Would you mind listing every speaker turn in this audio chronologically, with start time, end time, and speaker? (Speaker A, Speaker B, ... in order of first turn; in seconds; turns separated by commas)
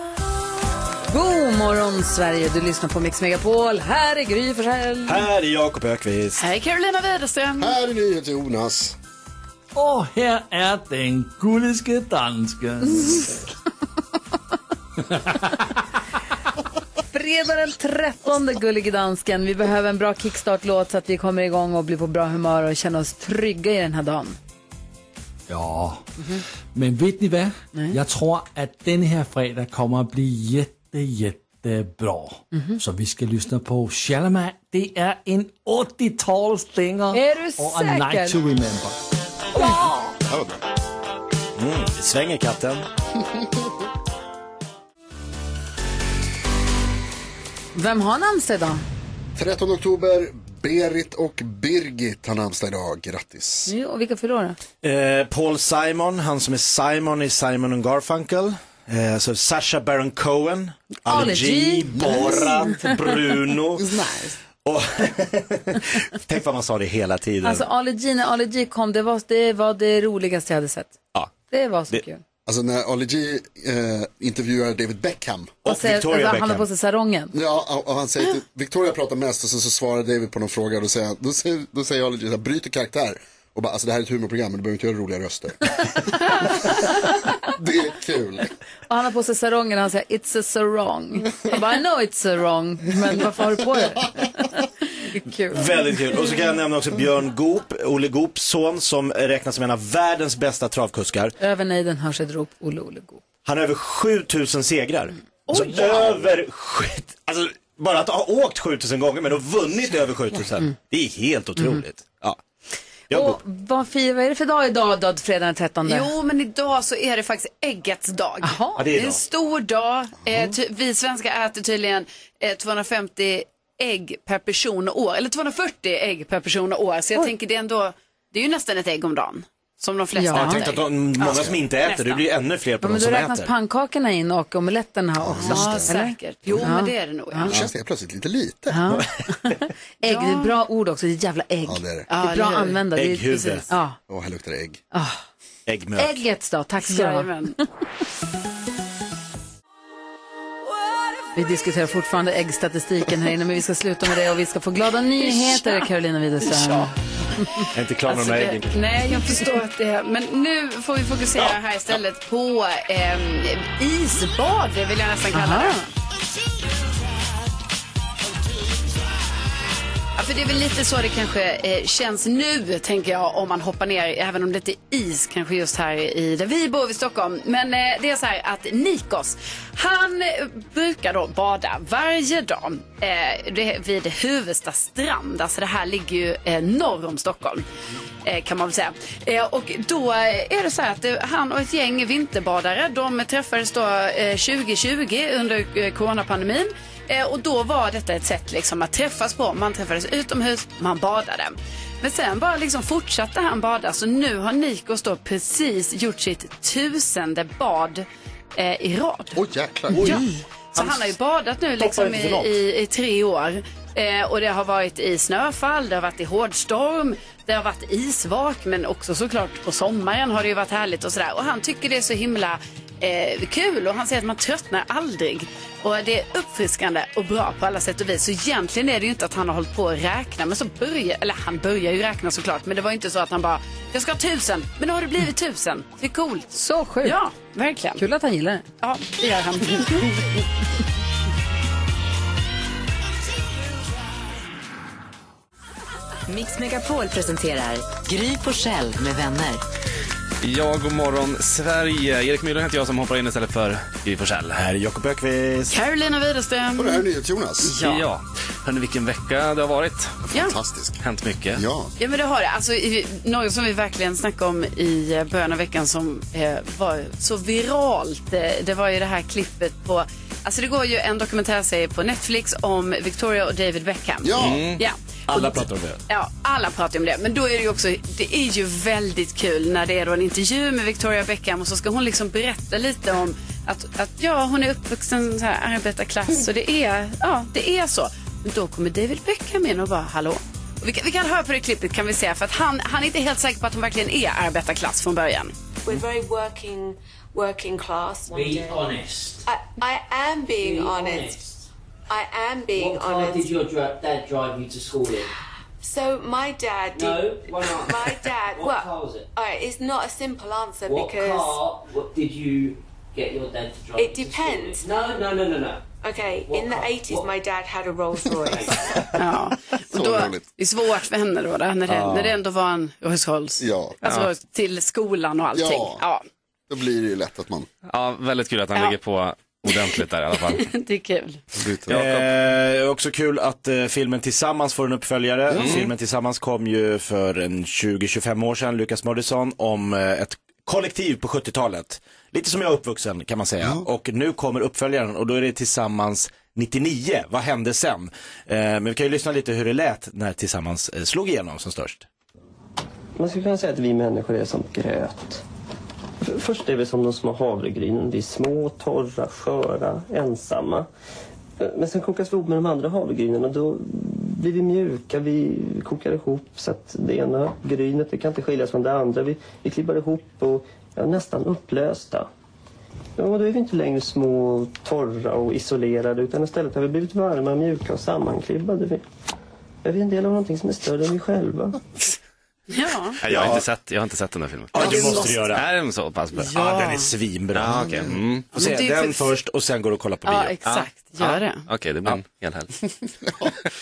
Speaker A: 1.1-5.2, Speaker B: 5.0-6.4, Speaker C: 6.4-7.7, Speaker D: 7.6-8.9, Speaker E: 9.7-13.3, Speaker E: 15.1-15.7, Speaker A: 17.1-24.4, Speaker E: 25.5-26.0, Speaker E: 26.7-39.0, Speaker A: 32.5-32.8, Speaker A: 37.1-38.4, Speaker A: 39.5-40.1, Speaker D: 40.2-40.6, Speaker B: 41.6-42.9, Speaker A: 47.7-48.8, Speaker D: 49.4-53.7, Speaker A: 53.6-54.6, Speaker B: 54.8-64.0, Speaker A: 61.1-63.0, Speaker D: 62.0-62.3, Speaker D: 63.8-64.3, Speaker B: 64.6-67.7, Speaker A: 67.4-72.2, Speaker D: 72.5-75.6, Speaker B: 75.6-76.7, Speaker A: 75.7-77.3, Speaker D: 77.3-86.7, Speaker D: 87.5-88.5, Speaker A: 88.9-95.6, Speaker B: 95.5-101.3, Speaker A: 101.4-103.2, Speaker B: 103.4-112.4, Speaker C: 105.5-106.2, Speaker A: 111.6-111.8, Speaker B: 113.1-113.4, Speaker A: 113.1-116.1, Speaker C: 115.8-131.2, Speaker A: 118.4-118.8, Speaker B: 118.8-119.2, Speaker D: 120.2-120.5, Speaker A: 130.2-130.7, Speaker B: 130.3-133.5, Speaker D: 131.3-131.6, Speaker A: 132.8-137.5, Speaker D: 135.2-135.9, Speaker C: 135.4-137.6, Speaker D: 137.4-139.0, Speaker A: 138.7-144.0, Speaker C: 140.0-140.5, Speaker D: 141.6-142.1, Speaker C: 142.1-142.8, Speaker B: 142.9-143.7, Speaker D: 144.1-144.8, Speaker A: 144.9-145.2, Speaker B: 145.7-146.2, Speaker A: 146.0-147.6, Speaker C: 146.8-147.6, Speaker A: 151.3-156.9, Speaker C: 155.2-155.8, Speaker C: 156.4-156.9, Speaker B: 157.7-158.8, Speaker C: 158.1-165.8, Speaker A: 165.3-165.7, Speaker C: 170.2-187.6, Speaker C: 188.2-209.4, Speaker D: 209.3-210.2, Speaker B: 209.9-211.1, Speaker C: 210.0-236.5, Speaker B: 211.8-212.5, Speaker A: 236.5-237.2, Speaker C: 237.0-238.0, Speaker A: 238.0-238.6, Speaker C: 238.8-240.4, Speaker F: 246.3-249.6, Speaker G: 250.4-254.6, Speaker B: 254.5-255.7, Speaker C: 255.7-257.0, Speaker D: 256.8-257.8, Speaker C: 257.6-258.1, Speaker G: 257.8-260.2, Speaker D: 260.3-261.0, Speaker G: 261.0-261.6, Speaker D: 261.5-261.9, Speaker C: 262.0-295.5, Speaker D: 274.2-274.6, Speaker G: 274.4-274.8, Speaker B: 275.3-276.0, Speaker H: 295.8-301.5, Speaker I: 298.3-299.5, Speaker I: 300.6-301.6, Speaker H: 302.1-303.5, Speaker I: 302.7-305.3, Speaker H: 305.8-311.6, Speaker I: 306.9-309.3, Speaker I: 310.9-315.8, Speaker H: 313.9-314.9, Speaker H: 316.0-318.7, Speaker I: 316.5-317.3, Speaker I: 318.4-318.8, Speaker C: 319.1-326.2, Speaker D: 319.9-320.4, Speaker B: 321.9-322.4, Speaker D: 323.6-324.0, Speaker G: 324.0-324.3, Speaker D: 325.5-326.0, Speaker D: 326.7-327.7, Speaker G: 327.9-330.7, Speaker C: 330.4-331.4, Speaker D: 331.5-332.0, Speaker G: 331.9-332.3, Speaker B: 331.9-352.1, Speaker D: 335.5-335.8, Speaker G: 335.5-335.9, Speaker D: 343.6-343.9, Speaker J: 353.2-355.4, Speaker J: 356.2-360.9, Speaker J: 361.6-372.3, Speaker J: 373.2-379.0, Speaker J: 379.8-381.8, Speaker C: 382.7-383.2, Speaker G: 383.2-386.5, Speaker B: 383.2-383.6, Speaker B: 384.7-385.7, Speaker B: 386.3-390.5, Speaker C: 386.4-387.1, Speaker G: 387.5-388.5, Speaker C: 388.5-389.3, Speaker C: 390.2-391.6, Speaker G: 390.6-392.7, Speaker D: 393.2-393.5